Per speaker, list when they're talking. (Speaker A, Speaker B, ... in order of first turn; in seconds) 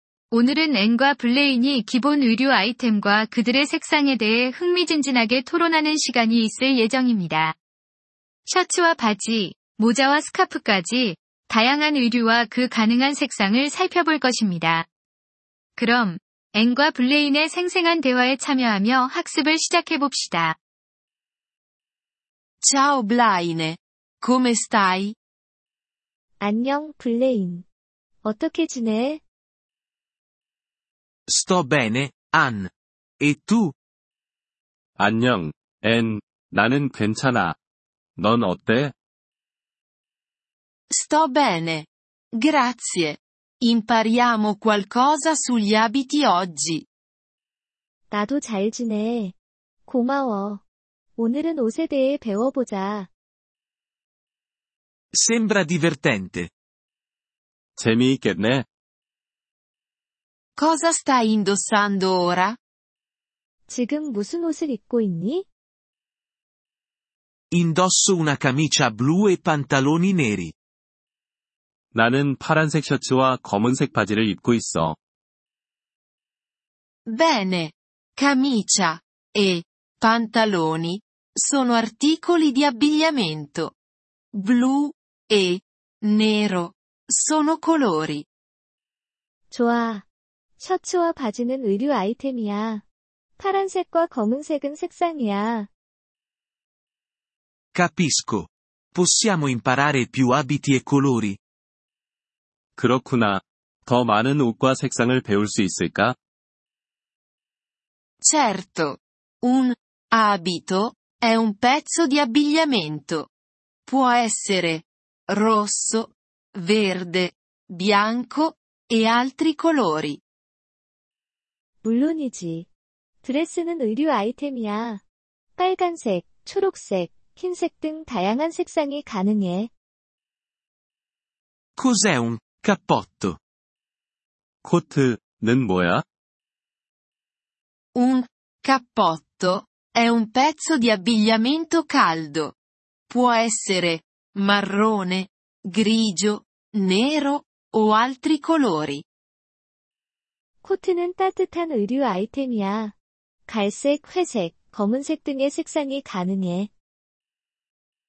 Speaker A: 0.3-7.5, 8.5-14.8, 15.8-20.6
Speaker B: 22.6-25.2, 40.9-46.8, 60.6-62.6, 77.1-83.8, 84.3-88.2, 108.2-113.3, 113.9-120.2, 137.9-142.5, 143.1-149.0
Speaker C: 26.4-27.6, 28.2-29.2, 48.1-50.6, 51.2-53.1, 63.7-65.5, 89.5-90.0, 90.6-92.8, 93.4-95.7, 121.8-122.7, 123.2-125.0, 125.5-129.7, 150.6-152.9, 153.5-156.7
Speaker D: 31.3-33.7, 55.1-56.5, 67.5-70.5, 97.7-101.4, 131.8-133.4
Speaker E: 35.0-37.6, 38.2-38.9, 57.8-58.7, 71.9-75.0, 102.8-106.2, 134.6-136.0